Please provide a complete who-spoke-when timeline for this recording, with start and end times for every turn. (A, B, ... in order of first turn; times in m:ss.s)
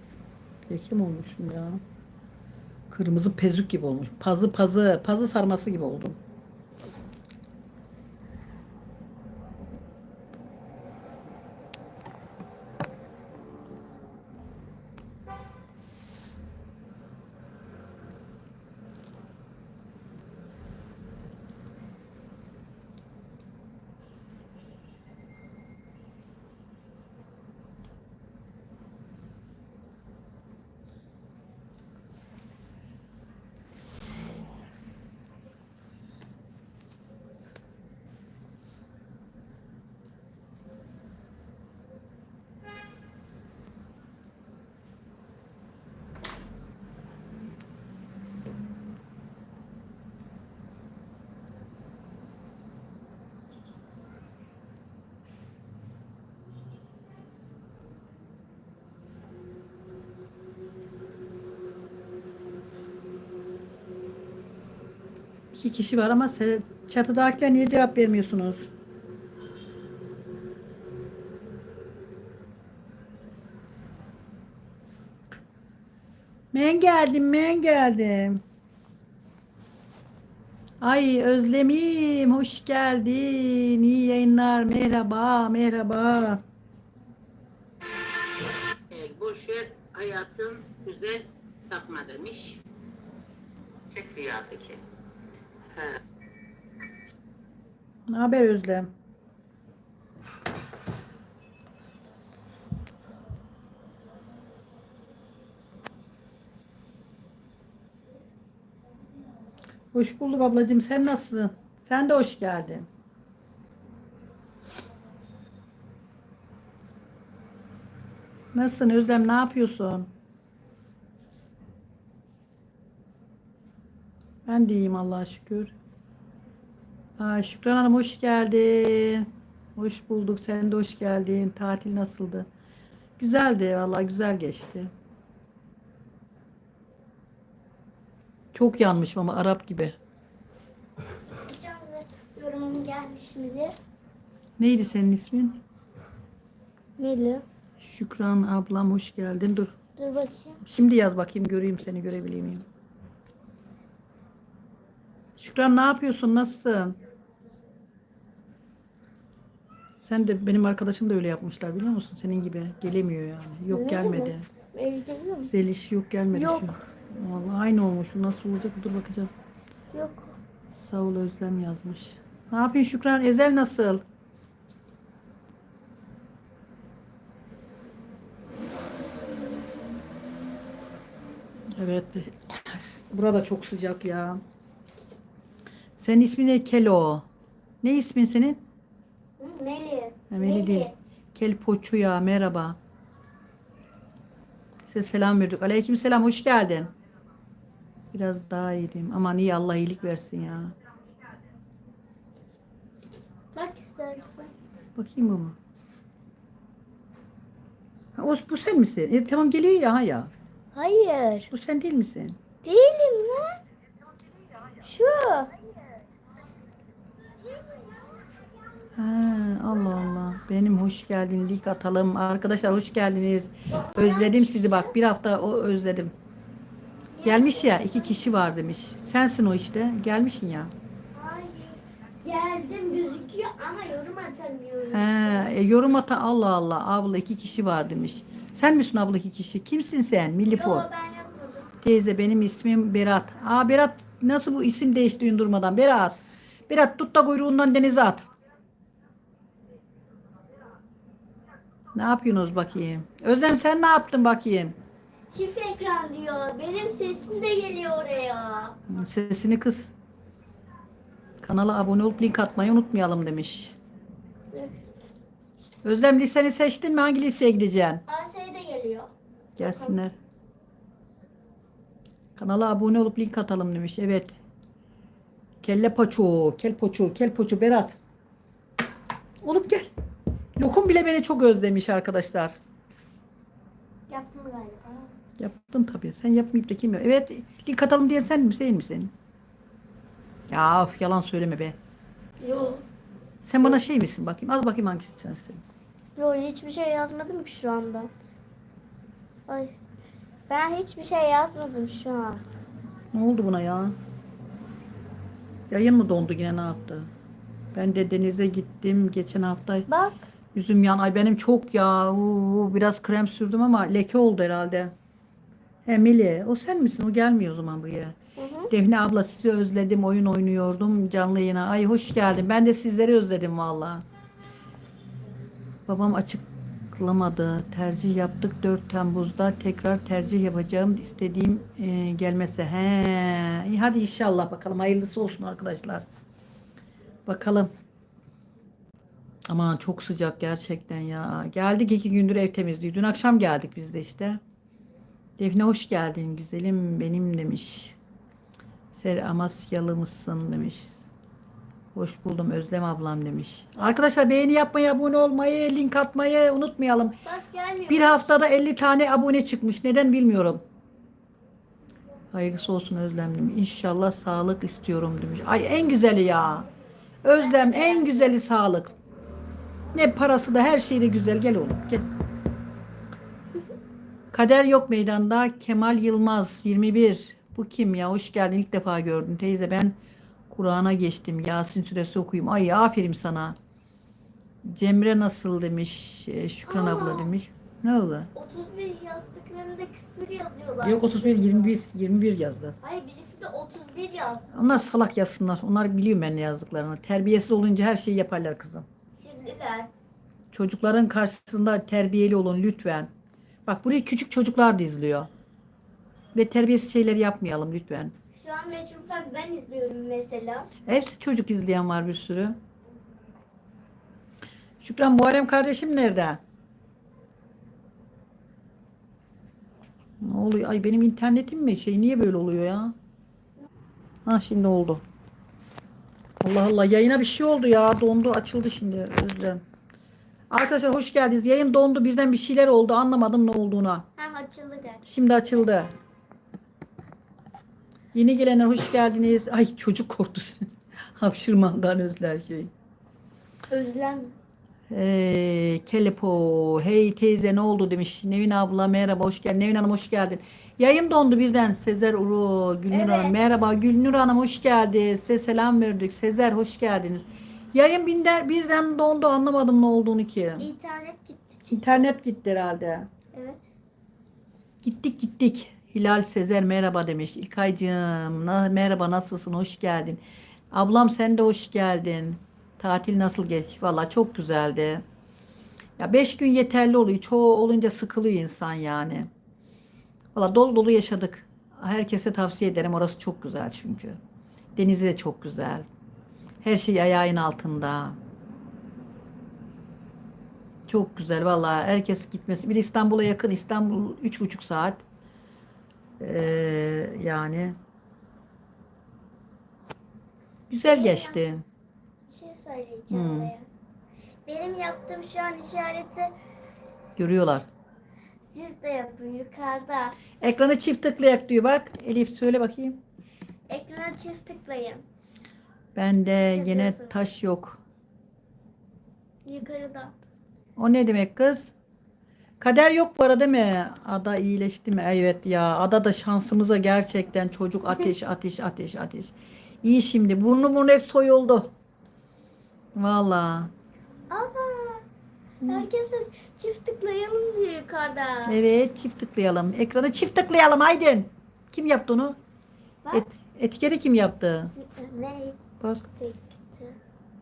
0:00.7-0:01.8 A
0:02.9-0:06.2 A
1:05.5-1:08.7 A
1:16.5-1:18.4 A
1:20.8-1:26.4 A
1:28.9-1:32.6 B
1:33.9-1:34.8 B
1:35.7-1:36.0 B
1:38.1-1:38.9 A
1:49.9-1:52.9 A
1:58.5-2:00.1 A
2:04.4-2:05.7 A
2:07.2-2:12.5 A
2:13.2-2:14.9 A
2:18.5-2:20.0 A
2:21.3-2:23.8 C
2:24.6-2:25.6 A
2:27.0-2:27.4 C
2:27.8-2:29.7 A
2:30.0-2:30.6 C
2:30.6-2:32.7 A
2:35.4-2:37.0 A
2:40.0-2:44.4 A
2:43.7-2:45.5 C
2:45.5-2:49.3 A
2:46.3-2:46.8 C
2:49.9-2:50.4 C
2:50.7-2:54.0 A
3:01.8-3:04.4 A
3:06.0-3:07.2 A
3:07.8-3:08.6 A
3:09.4-3:11.0 C
3:10.3-3:12.8 A
3:14.9-3:16.9 A
3:18.1-3:20.7 A
3:23.5-3:24.5 C
3:25.0-3:25.6 A
3:28.2-3:30.3 A
3:30.7-3:31.5 C
3:31.5-3:32.4 A
3:32.6-3:33.6 C
3:34.8-3:35.5 C
3:37.4-3:38.2 C
3:39.0-3:46.1 A
3:43.7-3:44.9 C
3:47.1-3:48.2 C
3:47.2-3:50.7 A
3:51.2-3:55.5 C
3:54.9-4:00.9 A
4:00.5-4:01.7 C
4:01.8-4:06.2 A
4:06.7-4:08.3 A
4:11.9-4:14.8 A
4:15.3-4:18.8 C
4:18.9-4:19.9 A
4:21.4-4:23.8 A
4:24.5-4:24.8 C
4:25.8-4:28.0 A
4:28.1-4:30.0 C
4:29.6-4:30.1 A
4:32.4-4:34.4 A
4:35.6-4:38.0 A
4:39.4-4:39.9 A
4:40.6-4:42.6 A
4:44.1-4:45.1 C
4:45.4-4:49.1 A
4:50.5-4:51.8 A
4:52.4-4:52.8 C
4:53.4-4:55.6 A
4:56.2-4:58.1 C
4:59.5-4:59.8 C
5:00.5-5:02.4 C
5:03.1-5:04.0 A
5:05.7-5:07.1 A
5:07.7-5:09.9 A
5:09.9-5:10.2 C
5:10.5-5:14.9 A
5:15.8-5:18.2 A
5:18.4-5:18.7 C
5:18.7-5:24.0 A
5:25.9-5:36.0 A
5:37.2-5:37.7 A
5:39.5-5:44.4 A
5:45.4-5:48.0 A
5:48.9-5:51.0 A
5:51.9-5:57.2 A
5:57.2-5:58.3 C
5:57.9-6:00.6 A
6:02.3-6:06.7 A
6:07.2-6:08.9 A
6:07.4-6:08.4 C
6:09.9-6:12.0 A
6:14.3-6:19.9 A
6:20.5-6:23.6 A
6:24.6-6:28.3 A
6:26.7-6:27.3 C
6:28.3-6:31.8 C
6:30.8-6:32.8 A
6:32.8-6:34.8 C
6:34.5-6:38.9 A
6:39.1-6:39.9 C
6:40.5-6:43.1 A
6:43.6-6:45.3 A
6:46.3-6:48.1 A
6:48.3-6:50.7 C
6:50.8-6:52.6 A
6:54.8-6:56.4 A
7:00.2-7:02.9 A
7:04.2-7:05.0 A
7:06.4-7:09.6 A
7:10.5-7:14.1 A
7:14.2-7:15.0 C
7:15.0-7:15.9 A
7:18.1-7:22.7 A
7:23.7-7:24.3 C
7:24.9-7:40.7 A
7:32.9-7:33.6 C
7:40.6-7:42.1 C
7:41.7-7:43.1 A
7:43.3-7:43.7 C
7:44.8-7:50.2 A
7:50.7-7:55.0 A
7:56.0-7:59.3 A
8:00.3-8:04.2 A
8:04.8-8:05.8 A
8:06.6-8:08.2 A
8:10.9-8:15.0 A
8:16.2-8:17.8 A
8:20.7-8:21.6 A
8:20.8-8:21.4 C
8:22.3-8:23.7 C
8:23.1-8:23.5 A
8:24.4-8:26.3 C
8:27.2-8:27.7 A
8:28.4-8:30.2 C
8:30.4-8:33.0 A
8:33.7-8:35.0 C
8:36.0-8:37.8 A
8:36.3-8:37.2 C
8:39.4-8:40.1 C
8:40.8-8:41.7 A
8:42.6-8:51.7 A
8:52.9-8:53.7 A
8:54.3-8:55.0 C
8:55.6-8:58.6 C
8:58.4-9:02.4 A
9:03.1-9:04.7 A
9:04.8-9:07.0 C
9:05.8-9:06.1 A